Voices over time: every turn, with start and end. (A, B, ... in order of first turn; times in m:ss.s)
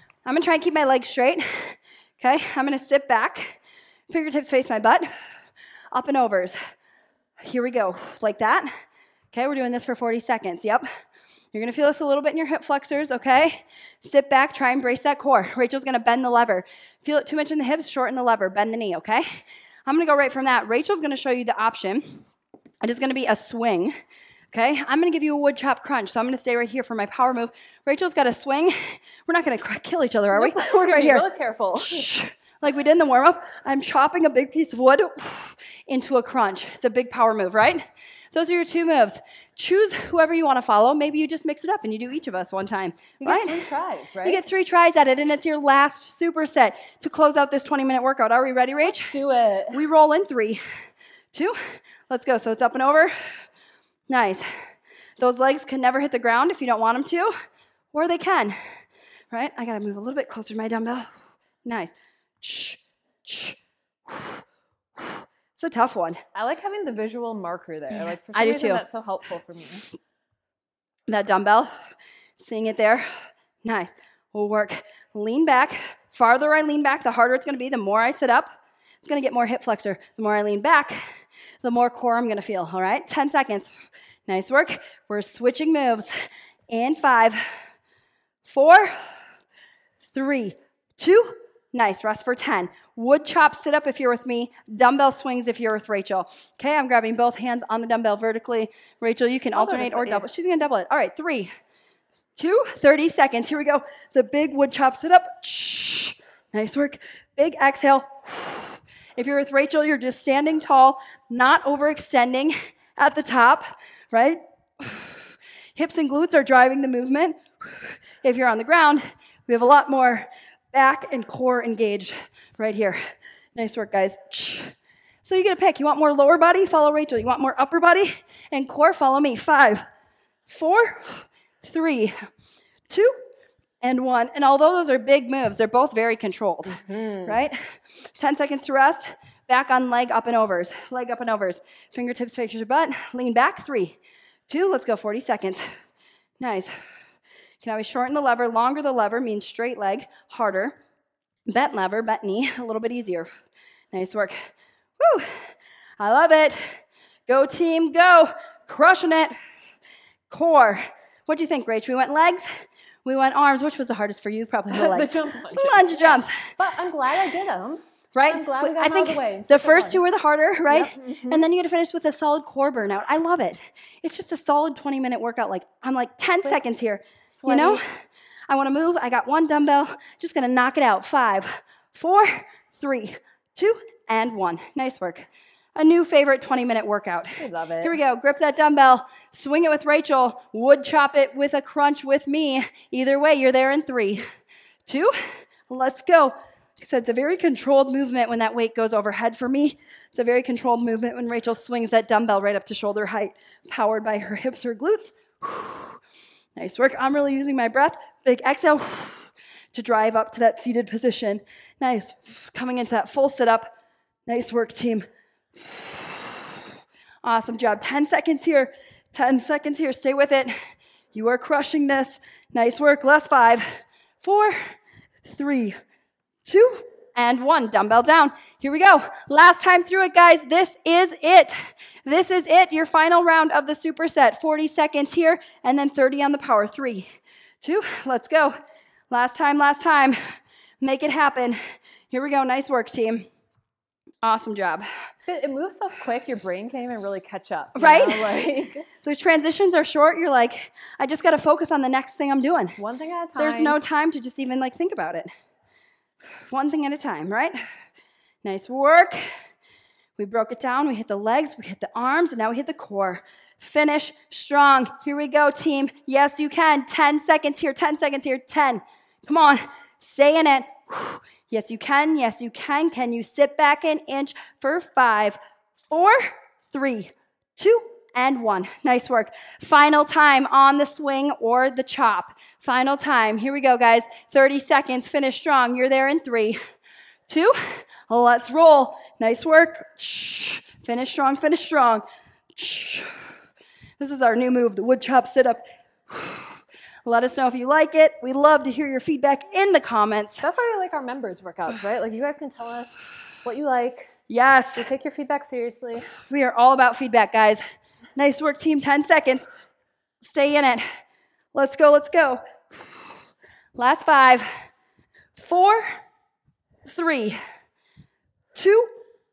0:00.2-0:03.6 A
0:04.1-0:05.1 A
0:05.9-0:06.6 A
0:07.4-0:08.7 A
0:09.3-0:10.9 A
0:11.5-0:22.2 A
0:22.8-0:23.9 A
0:24.5-0:31.2 A
0:30.3-0:32.1 B
0:31.8-0:43.7 A
0:43.2-0:44.4 B
0:44.2-0:49.2 A
0:48.9-0:49.8 B
0:49.7-0:50.6 A
0:51.3-0:53.1 A
0:54.1-0:54.5 A
0:55.2-0:57.3 A
0:57.9-0:58.6 A
0:59.3-1:01.1 A
1:01.6-1:04.4 A
1:05.0-1:06.2 A
1:06.4-1:09.9 B
1:08.2-1:08.8 A
1:11.1-1:11.7 A
1:12.4-1:13.1 A
1:13.6-1:18.5 A
1:19.0-1:21.0 A
1:21.6-1:23.7 A
1:24.3-1:26.1 A
1:26.7-1:27.4 A
1:28.4-1:29.0 A
1:30.1-1:41.5 A
1:39.6-1:40.2 B
1:42.4-1:55.2 A
1:55.8-2:03.0 A
2:03.6-2:04.7 A
2:05.2-2:09.9 A
2:10.5-2:12.2 A
2:12.9-2:13.2 A
2:13.8-2:24.0 A
2:16.8-2:17.4 B
2:24.5-2:25.7 A
2:26.4-2:26.7 A
2:27.6-2:30.8 A
2:31.5-2:33.3 A
2:33.9-2:34.4 A
2:35.0-2:35.4 A
2:36.0-2:39.3 A
2:40.3-2:42.5 A
2:43.0-2:46.5 A
2:44.7-2:50.0 B
2:48.2-2:57.8 A
2:50.7-2:51.4 B
2:57.3-2:57.8 B
2:58.5-3:14.2 A
3:07.4-3:08.0 B
3:14.9-3:26.0 A
3:26.6-3:33.7 A
3:34.3-3:35.1 A
3:35.6-3:36.6 A
3:37.2-3:40.5 A
3:41.1-3:44.7 A
3:45.3-3:45.8 A
3:46.5-3:57.1 A
3:57.6-3:58.6 A
3:59.1-4:00.2 A
4:00.8-4:01.6 A
4:02.1-4:03.3 A
4:04.2-4:04.9 A
4:05.2-4:08.9 B
4:07.8-4:08.3 A
4:09.0-4:12.8 A
4:12.8-4:13.8 B
4:13.4-4:15.3 A
4:16.5-4:17.6 A
4:18.4-4:19.2 A
4:20.2-4:35.4 A
4:35.9-4:46.6 A
4:47.3-4:52.0 A
4:52.6-4:53.1 A
4:54.0-4:56.5 A
4:57.0-5:00.4 A
5:00.4-5:04.1 B
5:04.3-5:04.9 A
5:04.8-5:06.1 B
5:06.3-5:07.6 A
5:08.2-5:09.5 A
5:10.2-5:10.8 A
5:11.5-5:12.4 A
5:13.8-5:14.5 A
5:15.4-5:16.0 A
5:16.9-5:17.4 A
5:18.6-5:18.9 A